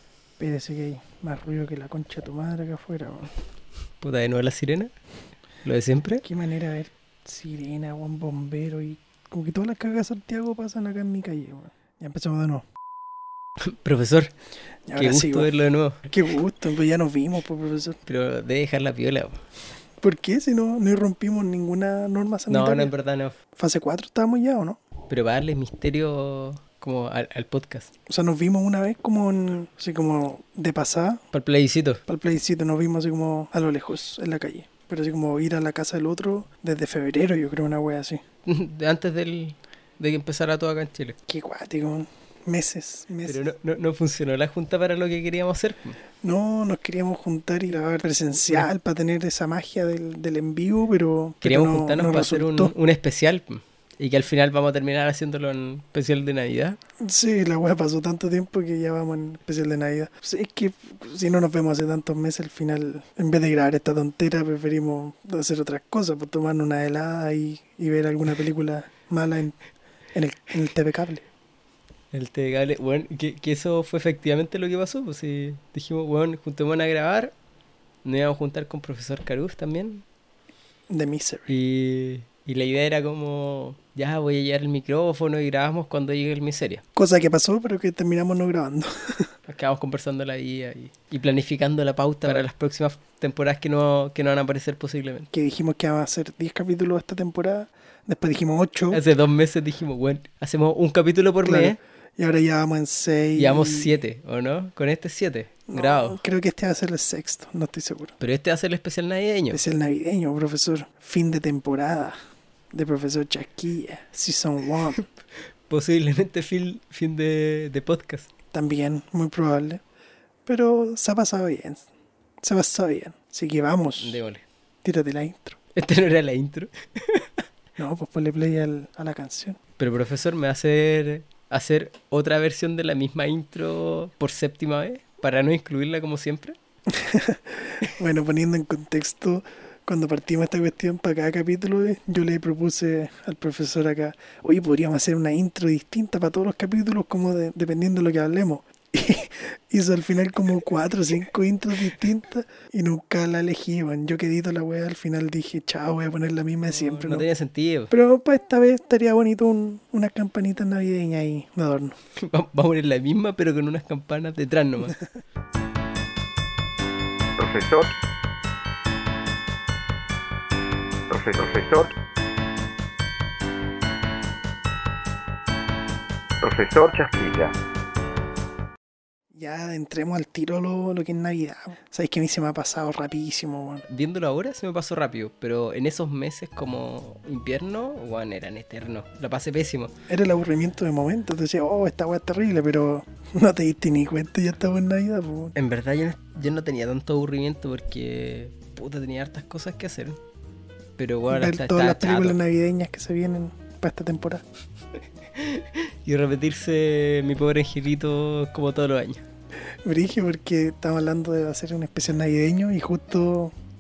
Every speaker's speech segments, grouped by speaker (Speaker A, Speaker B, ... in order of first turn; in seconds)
Speaker A: 0.4-3.3, 6.2-12.7, 14.9-15.5, 16.1-18.0, 20.0-22.9, 23.6-24.8, 28.1-31.2, 32.1-38.2, 41.3-43.4, 46.2-52.7, 57.0-69.6, 70.1-71.2, 80.9-81.5, 87.0-89.3, 95.3-99.0, 101.4-103.9, 105.7-108.2, 109.5-112.2, 112.7-115.0, 118.5-119.8, 120.5-121.9, 122.4-124.2, 124.8-125.6, 127.8-129.6, 136.9-157.3, 157.9-162.0, 179.3-183.8, 190.1-195.5, 201.3-204.4, 209.8-213.5
Speaker B: 4.0-4.9, 5.7-6.2, 13.6-14.3, 15.0-16.1, 18.1-19.4, 22.5-23.4, 25.1-27.9, 31.3-32.0, 38.5-41.2, 43.2-46.0, 51.4-56.8, 72.1-77.3, 78.0-80.0, 81.5-86.8, 89.5-95.3, 98.9-101.8, 103.4-106.2, 108.2-109.6, 115.7-118.3, 124.0-124.5, 125.8-127.3, 129.8-136.6, 156.6-157.9, 162.2-165.0, 183.9-189.9, 195.6-200.2, 201.0-202.4, 205.3-209.2
Speaker C: 167.4-167.9, 171.1-171.9, 176.4-177.6